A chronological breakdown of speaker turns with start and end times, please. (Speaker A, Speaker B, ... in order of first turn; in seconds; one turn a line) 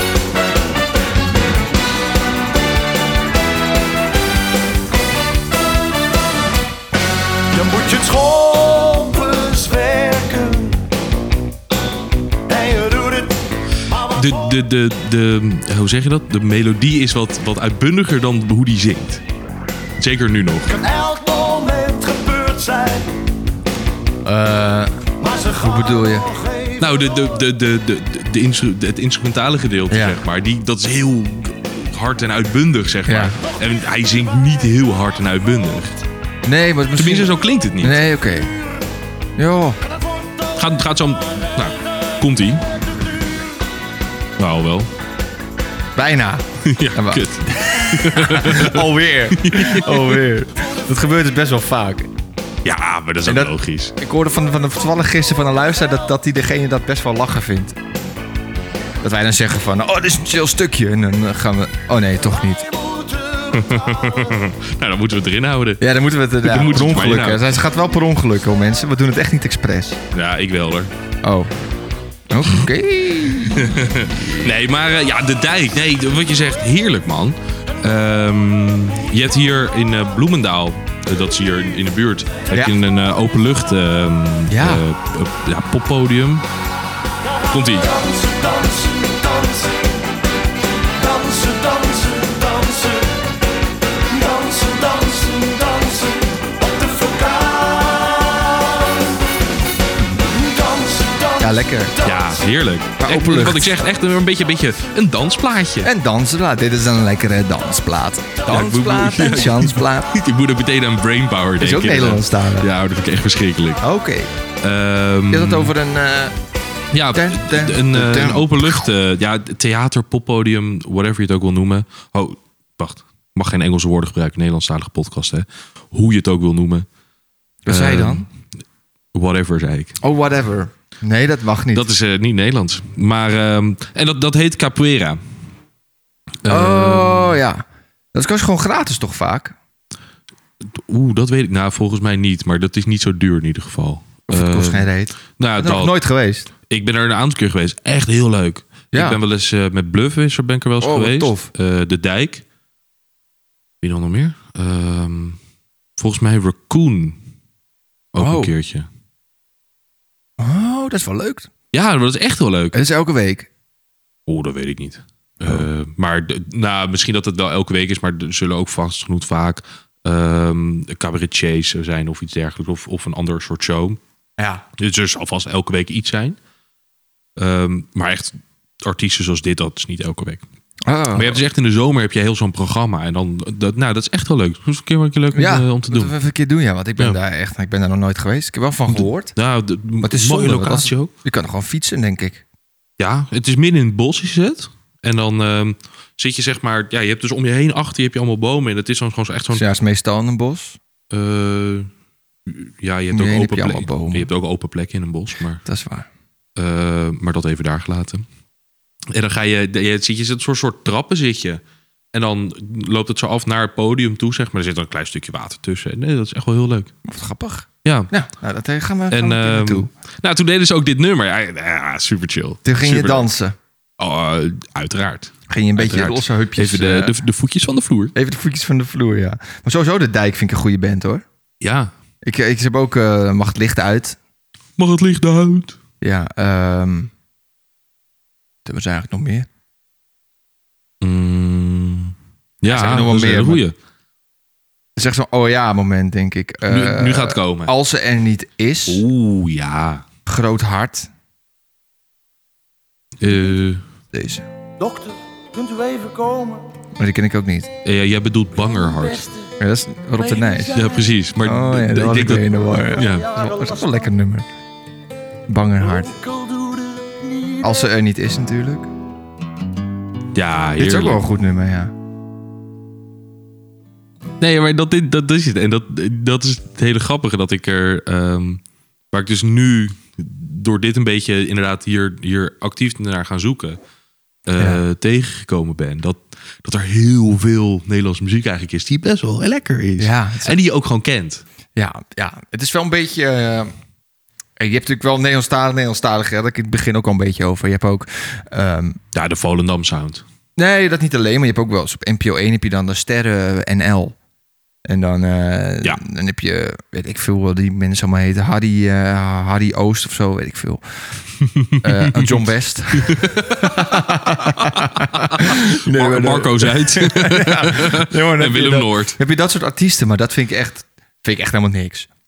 Speaker A: 8.6-10.5
Speaker B: 14.1-19.2
Speaker B: 20.0-20.8
Speaker A: 21.0-22.0
Speaker A: 22.6-22.9
Speaker C: 24.2-26.3
Speaker B: 26.8-36.0
Speaker C: 29.9-30.2
Speaker C: 33.1-33.4
Speaker C: 36.5-38.5
Speaker B: 37.0-38.0
Speaker C: 39.4-39.8
Speaker B: 40.6-42.6
Speaker B: 44.4-44.9
Speaker C: 46.0-52.1
Speaker B: 46.6-50.2
Speaker B: 52.6-54.0
Speaker C: 53.2-57.8
Speaker C: 59.0-62.7
Speaker B: 63.5-65.8
Speaker C: 65.8-70.0
Speaker B: 66.4-67.4
Speaker B: 70.1-70.9
Speaker C: 71.2-71.5
Speaker C: 72.3-74.5
Speaker B: 73.5-86.4
Speaker C: 84.5-84.8
Speaker B: 87.5-88.0
Speaker A: 91.2-92.7
Speaker A: 94.2-95.9
Speaker A: 96.8-98.2
Speaker C: 101.4-102.0
Speaker B: 102.0-105.9
Speaker C: 103.0-103.7
Speaker C: 105.8-110.1
Speaker B: 108.5-113.8
Speaker C: 111.6-112.7
Speaker C: 113.8-114.3
Speaker B: 114.6-115.7
Speaker C: 115.3-116.3
Speaker B: 116.9-126.9
Speaker C: 117.1-118.9
Speaker C: 127.7-128.3
Speaker B: 127.7-128.3
Speaker B: 129.1-130.0
Speaker C: 130.0-131.9
Speaker B: 131.7-135.2
Speaker B: 136.4-137.4
Speaker C: 136.5-139.6
Speaker B: 140.7-145.9
Speaker C: 144.3-146.5
Speaker B: 146.7-152.4
Speaker C: 148.9-149.2
Speaker C: 150.8-151.5
Speaker B: 153.8-155.4
Speaker B: 156.0-157.2
Speaker B: 158.1-158.9
Speaker C: 158.2-158.5
Speaker C: 160.4-161.5
Speaker B: 161.7-162.8
Speaker C: 162.7-163.5
Speaker B: 164.3-174.0
Speaker C: 174.4-174.6
Speaker B: 174.8-176.4
Speaker B: 177.4-180.4
Speaker C: 180.8-181.4
Speaker B: 181.1-186.1
Speaker C: 185.3-189.3
Speaker B: 188.9-191.1
Speaker C: 190.0-192.4
Speaker B: 193.0-199.7
Speaker C: 199.5-200.8
Speaker B: 201.1-201.9
Speaker B: 202.5-205.6
Speaker C: 203.1-204.3
Speaker C: 205.7-206.1
Speaker B: 206.6-208.3
Speaker B: 209.1-211.6
Speaker B: 212.1-216.9
Speaker C: 217.1-219.9
Speaker B: 217.8-218.1
Speaker B: 219.1-223.3
Speaker C: 222.7-223.6
Speaker B: 224.0-228.1
Speaker C: 225.5-227.2
Speaker C: 228.2-231.2
Speaker B: 231.6-231.9
Speaker C: 232.2-234.2
Speaker B: 234.8-235.8
Speaker C: 236.0-237.1
Speaker C: 238.7-239.5
Speaker B: 241.0-243.8
Speaker C: 242.7-243.6
Speaker C: 245.0-249.1
Speaker B: 246.7-247.7
Speaker B: 248.9-250.0
Speaker C: 250.3-251.1
Speaker B: 253.2-253.8
Speaker C: 254.1-254.5
Speaker A: 254.8-256.6
Speaker C: 257.0-257.7
Speaker B: 257.8-259.3
Speaker C: 259.6-260.8
Speaker B: 260.7-263.3
Speaker C: 261.4-264.5
Speaker C: 265.5-266.2
Speaker C: 267.6-268.9
Speaker B: 270.3-271.2
Speaker C: 270.8-271.9
Speaker B: 274.4-283.8
Speaker B: 284.5-291.4
Speaker C: 290.0-290.6
Speaker C: 291.8-293.7
Speaker C: 294.6-299.0
Speaker B: 299.1-300.2
Speaker C: 300.6-304.2
Speaker C: 304.9-310.8
Speaker B: 311.4-319.2
Speaker C: 311.8-322.1